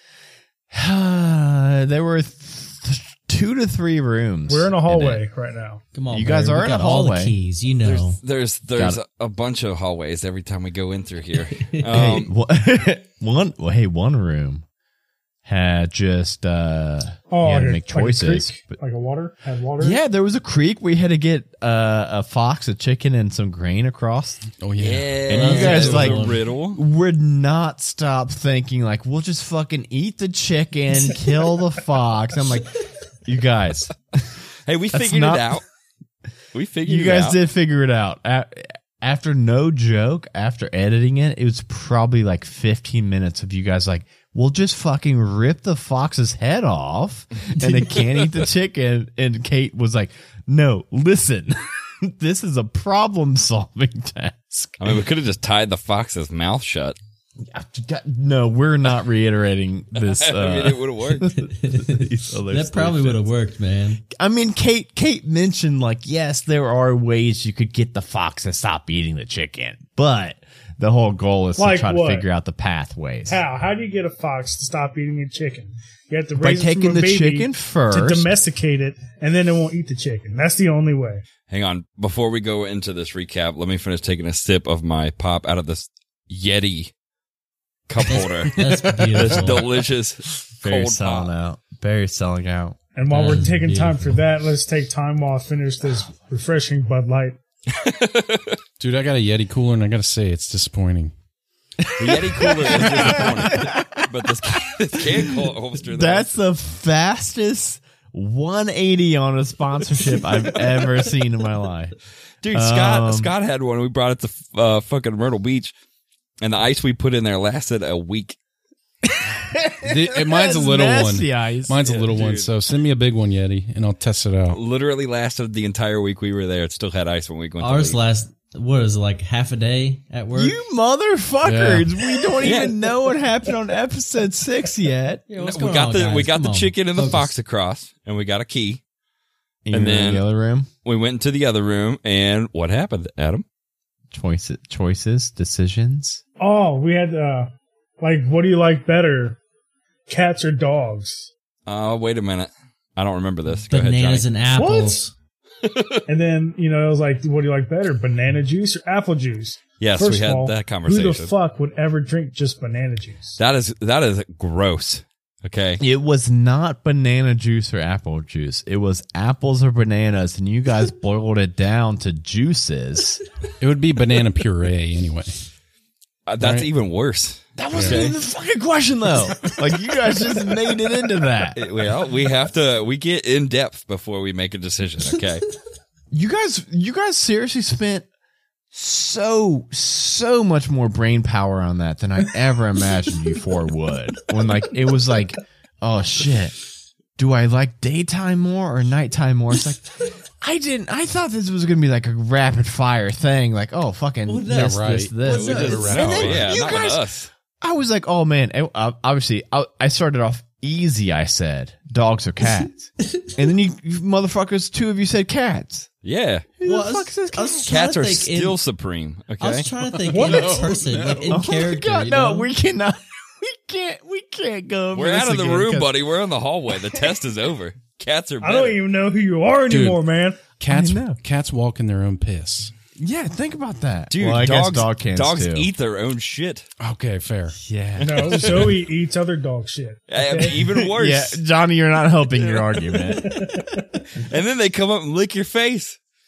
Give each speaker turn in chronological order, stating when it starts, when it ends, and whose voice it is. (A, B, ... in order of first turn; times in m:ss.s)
0:00.7-0:05.2 A
0:04.5-0:05.8 B
0:05.9-0:08.2 C
0:06.1-0:07.4 A
0:07.8-0:12.3 D
0:11.5-0:12.0 C
0:11.9-0:14.6 A
0:15.4-0:18.8 A
0:17.3-0:20.0 B
0:19.8-0:24.4 A
0:24.6-0:25.9 E
0:24.8-0:26.8 D
0:25.3-0:34.3 A
0:25.3-0:26.4 C
0:34.7-0:35.6 D
0:34.9-0:35.6 A
0:36.5-0:37.4 D
0:36.9-0:55.0 A
0:54.8-0:57.0 D
0:57.4-1:03.2 A
1:00.0-1:01.3 D
1:01.4-1:04.0 C
1:04.1-1:13.4 A
1:11.6-1:12.2 B
1:13.3-1:21.2 B
1:16.4-1:18.3 A
1:21.5-1:26.9 D
1:27.9-1:28.6 D
1:28.0-1:29.6 C
1:28.5-1:29.4 A
1:29.1-1:31.3 D
1:30.6-1:32.8 A
1:33.0-1:37.4 B
1:33.1-1:34.2 C
1:37.7-1:38.6 D
1:38.8-1:41.1 E
1:41.8-1:52.0 A
1:42.0-1:46.3 D
1:52.4-1:55.7 D
1:52.5-1:53.3 A
1:56.4-1:58.4 D
1:59.0-2:01.8 A
1:59.8-2:04.6 E
2:01.8-2:02.5 D
2:04.5-2:08.0 D
2:07.6-2:10.6 C
2:10.3-2:15.2 A
2:11.4-2:11.9 E
2:12.4-2:12.8 D
2:15.3-2:17.3 C
2:15.4-2:18.8 D
2:19.7-2:20.7 A
2:19.7-2:20.2 D
2:20.8-2:23.4 D
2:24.1-2:26.2 A
2:26.4-2:29.4 B
2:30.1-2:31.3 B
2:31.7-2:34.3 D
2:33.7-2:35.1 C
2:34.5-2:35.0 B
2:35.6-2:36.0 D
2:36.1-2:43.4 B
2:39.8-2:41.3 D
2:43.4-2:45.8 D
2:45.8-2:53.2 A
2:53.6-2:55.4 E
2:56.3-2:58.2 D
2:56.4-2:56.7 E
2:57.6-3:01.6 A
2:57.8-2:58.1 E
3:01.6-3:05.4 D
3:06.1-3:08.0 A
3:08.7-3:16.6 A
3:17.2-3:27.1 A
3:24.2-3:26.5 C
3:24.5-3:26.6 E
3:25.5-3:27.3 D
3:27.6-3:35.9 A
3:33.0-3:33.3 C
3:36.0-3:36.5 D
3:36.6-3:37.7 A
3:36.6-3:38.6 C
3:37.7-3:39.7 D
3:39.4-3:42.5 C
3:40.0-3:41.4 E
3:40.1-3:40.7 B
3:41.3-3:45.9 A
3:44.9-3:48.8 D
3:48.4-3:50.4 B
3:49.7-3:50.0 E
3:50.6-3:52.7 E
3:50.7-3:51.2 A
3:53.0-3:55.7 A
3:54.1-3:56.7 D
3:56.8-3:57.6 E
3:57.6-3:58.8 A
3:58.0-3:58.8 D
3:58.0-4:00.6 B
4:00.1-4:01.4 D
4:00.6-4:03.4 A
4:02.4-4:02.8 D
4:02.9-4:03.8 B
4:04.2-4:06.0 D